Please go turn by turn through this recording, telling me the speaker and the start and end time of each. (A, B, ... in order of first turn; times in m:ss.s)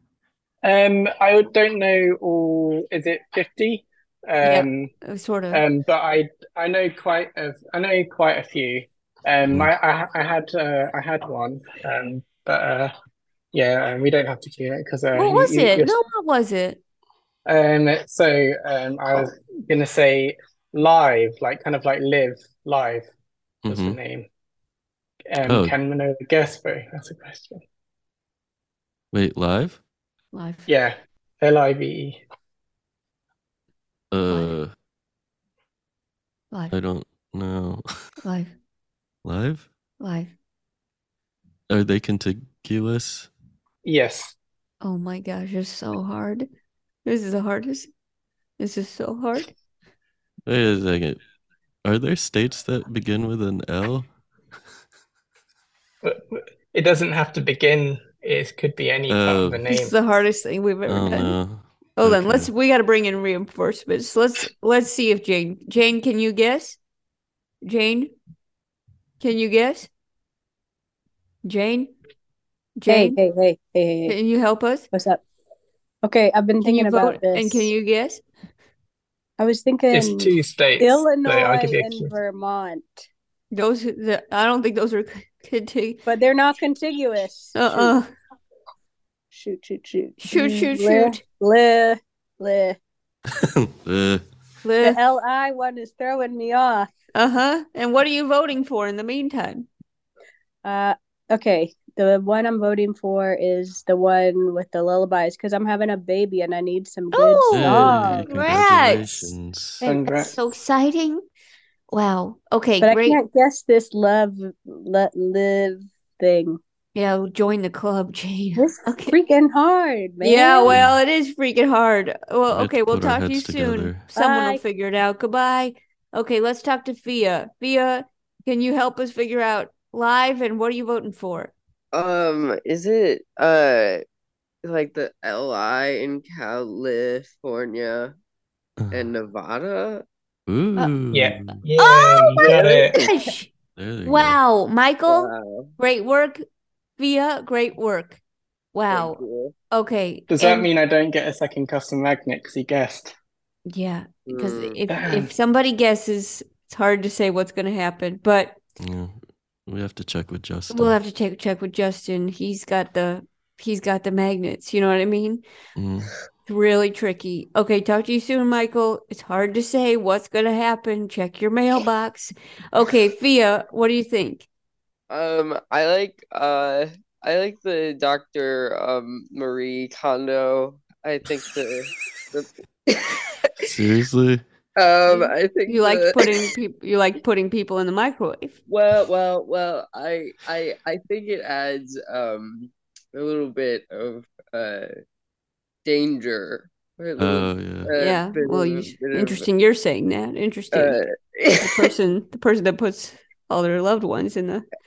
0:00.6-0:04.9 A
0:04.4-0:05.6 B
0:05.5-0:12.9 A
0:13.5-0:16.0 A
0:15.1-0:16.8 B
0:17.5-0:23.1 A
0:23.6-0:24.0 C
0:23.7-0:24.3 A
0:25.3-0:27.6 A
0:25.5-0:25.8 C
0:29.1-0:29.8 C
0:30.3-0:30.7 B
0:30.7-0:32.2 A
0:34.1-0:34.7 C
0:36.7-0:37.8 C
0:38.2-0:38.5 B
0:39.2-0:39.7 C
0:40.0-0:40.3 B
0:41.7-0:43.3 C
0:43.8-0:44.4 A
0:44.8-0:46.5 B
0:47.1-0:47.9 B
0:48.6-0:49.5 B
0:50.5-0:51.2 C
0:51.8-0:54.1 C
0:56.0-1:00.0 A
0:59.1-0:59.6 C
0:59.7-1:01.4 B
1:00.9-1:02.5 C
1:02.0-1:06.8 B
1:07.6-1:08.1 B
1:09.2-1:09.9 B
1:11.4-1:11.9 B
1:12.8-1:13.2 B
1:12.9-1:14.2 D
1:14.1-1:14.9 B
1:14.9-1:15.2 D
1:16.0-1:17.7 D
1:16.6-1:18.2 B
1:19.4-1:23.1 D
1:19.9-1:22.1 A
1:23.5-1:26.1 B
1:26.1-1:27.9 D
1:27.6-1:28.1 B
1:29.3-1:32.8 D
1:30.2-1:31.2 B
1:33.4-1:34.2 C
1:34.6-1:35.0 B
1:34.8-1:36.9 D
1:37.2-1:39.7 B
1:40.6-1:48.5 D
1:47.1-1:51.2 B
1:47.5-1:49.8 C
1:49.8-1:50.3 A
1:51.9-1:53.2 B
1:52.8-1:56.6 D
1:57.0-1:59.2 B
1:58.6-2:00.8 D
2:00.2-2:11.5 B
2:00.7-2:01.0 C
2:02.5-2:04.0 C
2:04.1-2:04.6 D
2:11.9-2:14.0 E
2:14.6-2:18.1 E
2:18.8-2:19.1 C
2:18.9-2:20.0 E
2:20.5-2:21.6 C
2:21.1-2:23.0 A
2:21.8-2:23.5 B
2:22.4-2:23.1 E
2:23.8-2:24.4 C
2:24.0-2:26.4 B
2:25.1-2:25.7 E
2:27.0-2:28.2 B
2:28.7-2:29.2 B
2:28.9-2:29.5 E
2:29.7-2:30.7 B
2:30.3-2:33.1 A
2:33.7-2:38.6 B
2:34.3-2:34.8 E
2:34.9-2:35.3 A
2:38.8-2:41.0 C
2:40.7-2:45.4 B
2:45.8-2:46.1 C
2:46.5-2:54.5 B
2:55.1-3:03.1 E
3:03.7-3:04.4 C
3:04.8-3:06.4 E
3:05.1-3:08.6 B
3:08.7-3:14.9 E
3:15.8-3:19.5 E
3:17.2-3:17.9 C
3:18.0-3:21.0 B
3:20.7-3:21.9 E
3:21.6-3:24.6 B